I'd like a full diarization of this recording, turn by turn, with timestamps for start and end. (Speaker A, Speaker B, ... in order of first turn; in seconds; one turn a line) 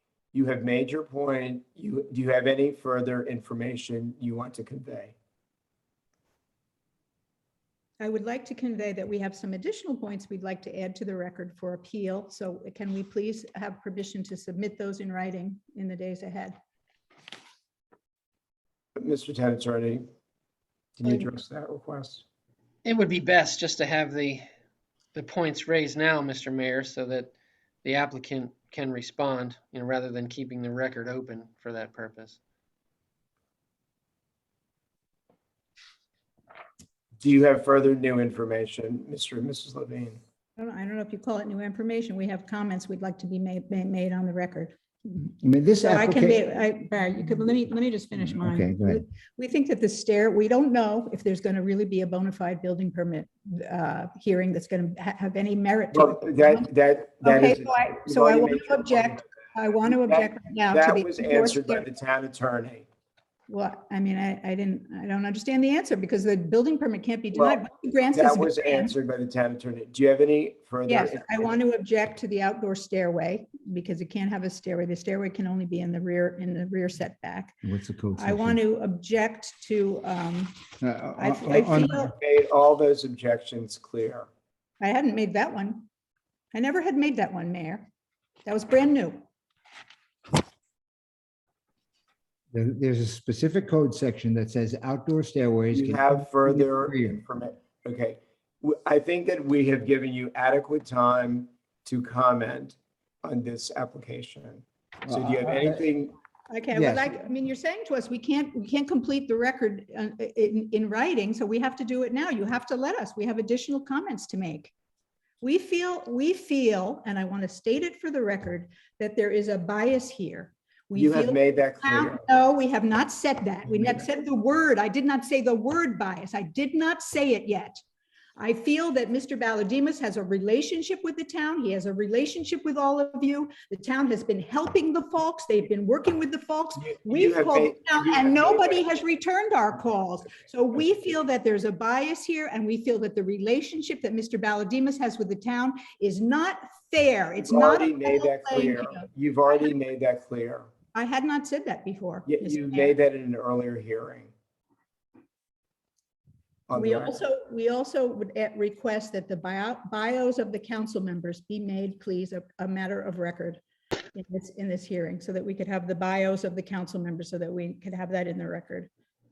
Speaker A: 0.3-5.1
Speaker B: 8.0-16.6
Speaker A: 19.0-20.1
Speaker A: 21.0-22.2
Speaker C: 22.8-24.4
Speaker C: 25.1-32.4
Speaker A: 37.2-40.2
Speaker B: 40.6-44.8
Speaker D: 45.1-46.4
Speaker B: 45.8-56.7
Speaker D: 48.2-49.0
Speaker A: 55.9-59.3
Speaker B: 57.2-61.8
Speaker A: 59.8-62.9
Speaker B: 63.5-68.9
Speaker A: 67.3-71.6
Speaker B: 70.8-77.5
Speaker D: 77.6-78.6
Speaker B: 78.2-80.5
Speaker D: 80.8-82.1
Speaker B: 81.2-82.1
Speaker A: 82.2-84.3
Speaker B: 84.8-85.9
Speaker B: 86.5-87.9
Speaker B: 88.4-89.2
Speaker D: 92.5-97.2
Speaker A: 95.7-106.1
Speaker D: 105.0-105.8
Speaker B: 106.5-114.7
Speaker D: 106.7-107.2
Speaker B: 115.4-127.8
Speaker A: 121.0-122.2
Speaker B: 128.4-149.1
Speaker A: 136.8-138.9
Speaker A: 147.4-150.7
Speaker B: 150.9-153.0
Speaker A: 152.2-154.3
Speaker A: 156.7-157.2
Speaker B: 156.7-163.6
Speaker B: 164.1-168.9